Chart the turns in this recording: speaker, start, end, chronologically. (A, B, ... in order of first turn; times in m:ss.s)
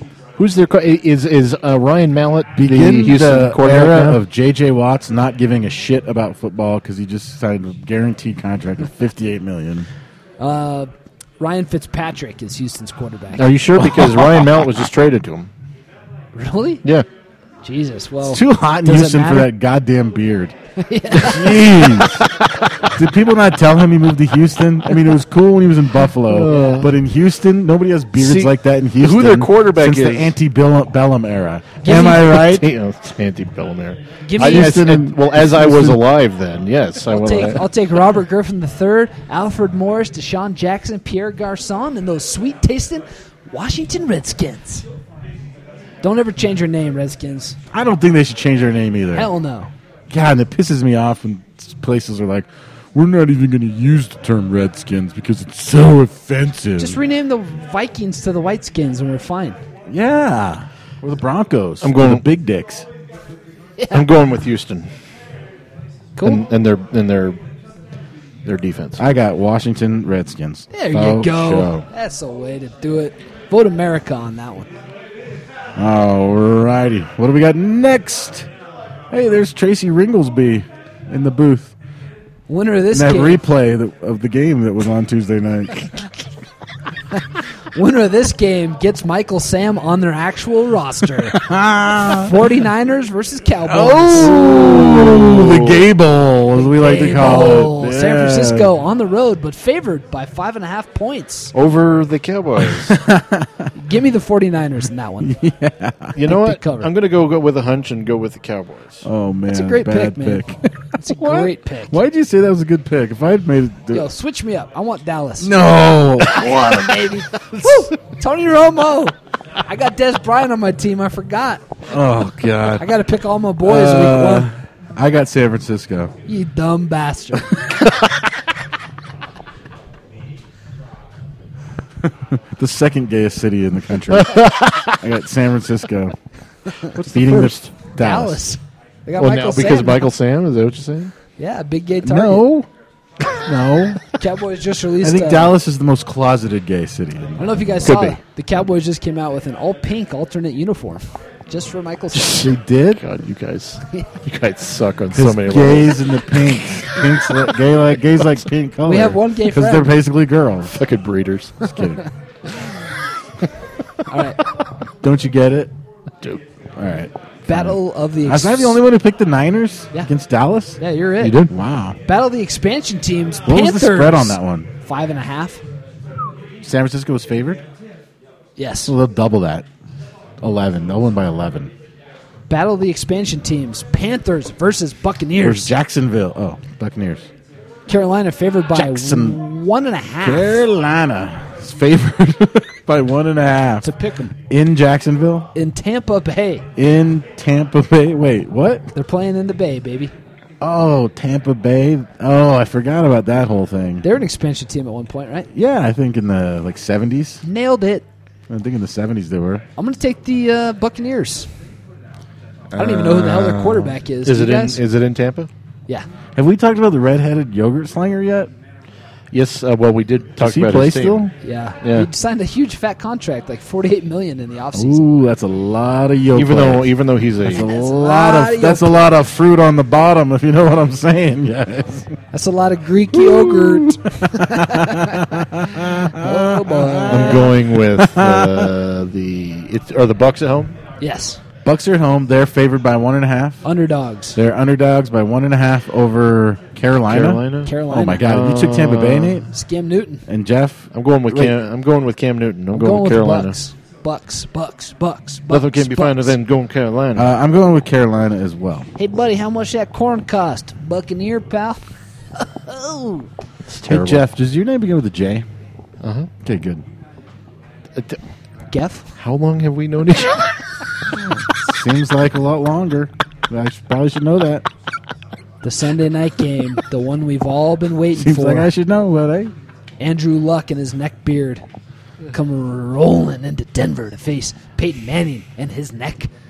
0:00.4-0:04.2 A
0:02.6-0:09.9 B
0:10.4-0:13.5 C
0:13.4-0:15.5 A
0:16.3-0:16.8 C
0:17.6-0:19.5 C
0:18.2-0:20.6 B
0:20.8-0:22.0 C
0:21.2-0:22.3 B
0:22.2-0:22.7 A
0:22.9-0:32.7 B
0:26.3-0:26.9 A
0:28.2-0:30.4 A
0:31.8-0:32.3 C
0:31.9-0:37.7 A
0:34.3-0:34.8 C
0:34.4-0:36.0 B
0:37.1-0:44.8 C
0:46.0-0:47.6 C
0:47.7-0:49.3 B
0:49.2-0:49.7 C
0:50.1-0:57.0 B
0:56.8-0:59.6 C
0:59.9-1:02.9 B
1:01.8-1:02.2 A
1:03.8-1:04.1 C
1:03.9-1:04.9 A
1:06.2-1:06.4 C
1:06.2-1:07.4 A
1:08.4-1:09.0 A
1:09.0-1:11.8 B
1:10.7-1:14.7 C
1:15.8-1:18.5 B
1:19.1-1:21.7 B
1:22.5-1:23.4 C
1:22.9-1:25.9 B
1:27.7-1:31.5 C
1:31.3-1:32.4 B
1:32.0-1:34.4 C
1:33.6-1:38.7 B
1:34.2-1:35.9 A
1:36.6-1:41.5 C
1:41.5-1:42.9 A
1:42.6-1:43.7 B
1:43.8-1:45.4 C
1:45.2-1:46.2 B
1:46.2-1:49.0 A
1:46.2-1:46.9 C
1:49.0-1:54.1 B
1:49.5-1:52.0 C
1:53.9-2:01.6 C
1:55.4-1:57.2 B
2:01.9-2:02.9 B
2:02.8-2:04.5 C
2:03.6-2:06.1 B
2:06.3-2:07.6 C
2:12.0-2:16.2 B
2:14.1-2:15.0 A
2:16.9-2:18.4 B
2:17.0-2:17.7 A
2:18.0-2:20.1 C
2:19.2-2:21.1 A
2:21.4-2:22.5 C
2:22.0-2:22.7 B
2:23.4-2:24.0 B
2:24.2-2:25.6 C
2:25.0-2:27.9 B
2:27.4-2:32.5 C
2:27.8-2:28.2 A
2:32.2-2:36.1 A
2:32.3-2:33.0 B
2:35.1-2:40.8 B
2:38.8-2:40.0 C
2:40.7-2:41.7 A
2:41.7-2:42.0 B
2:44.1-2:44.4 C
2:45.0-2:45.7 B
2:46.8-2:50.8 B
2:47.5-2:48.8 C
2:50.8-2:51.5 C
2:51.2-2:51.5 A
2:51.5-2:52.0 B
2:52.1-2:55.6 C
2:53.5-2:54.7 B
2:56.6-2:57.6 B
2:58.6-2:58.9 C
2:58.9-2:59.7 B
3:00.4-3:01.7 B
3:02.5-3:05.7 C
3:05.4-3:07.3 B
3:07.9-3:10.6 C
3:08.7-3:09.4 B
3:10.2-3:13.9 B
3:13.8-3:14.4 C
3:14.5-3:15.5 B
3:15.6-3:16.6 C
3:16.8-3:18.9 B
3:19.0-3:20.1 C
3:20.6-3:24.0 B
3:24.0-3:25.5 C
3:25.5-3:27.4 B
3:27.4-3:28.1 C
3:28.5-3:29.6 B
3:29.8-3:31.5 C
3:32.7-3:35.5 A
3:32.8-3:34.8 C
3:36.4-3:38.5 B
3:39.3-3:42.1 A
3:40.4-3:41.3 B
3:41.4-3:45.1 C
3:44.7-3:52.1 B
3:46.3-3:47.7 A
3:47.6-3:49.1 C
3:52.3-3:57.5 C
3:53.1-3:58.7 B
3:57.1-4:00.8 A
4:01.0-4:01.4 C
4:01.6-4:03.6 B
4:03.6-4:04.4 C
4:04.4-4:09.5 B
4:07.1-4:09.4 A
4:07.6-4:08.2 C
4:09.5-4:10.2 C
4:10.3-4:11.5 B
4:10.9-4:13.6 A
4:12.7-4:16.4 C
4:15.5-4:17.4 A
4:17.2-4:18.9 B
4:19.0-4:21.8 C
4:22.4-4:23.3 C
4:23.7-4:24.2 A
4:23.8-4:25.5 B
4:26.0-4:26.3 A
4:26.4-4:26.8 B
4:28.7-4:29.1 C
4:29.2-4:30.5 A
4:31.6-4:34.7 B
4:35.6-4:38.7 C
4:38.1-4:39.5 B
4:40.0-4:41.6 C
4:42.3-4:46.3 C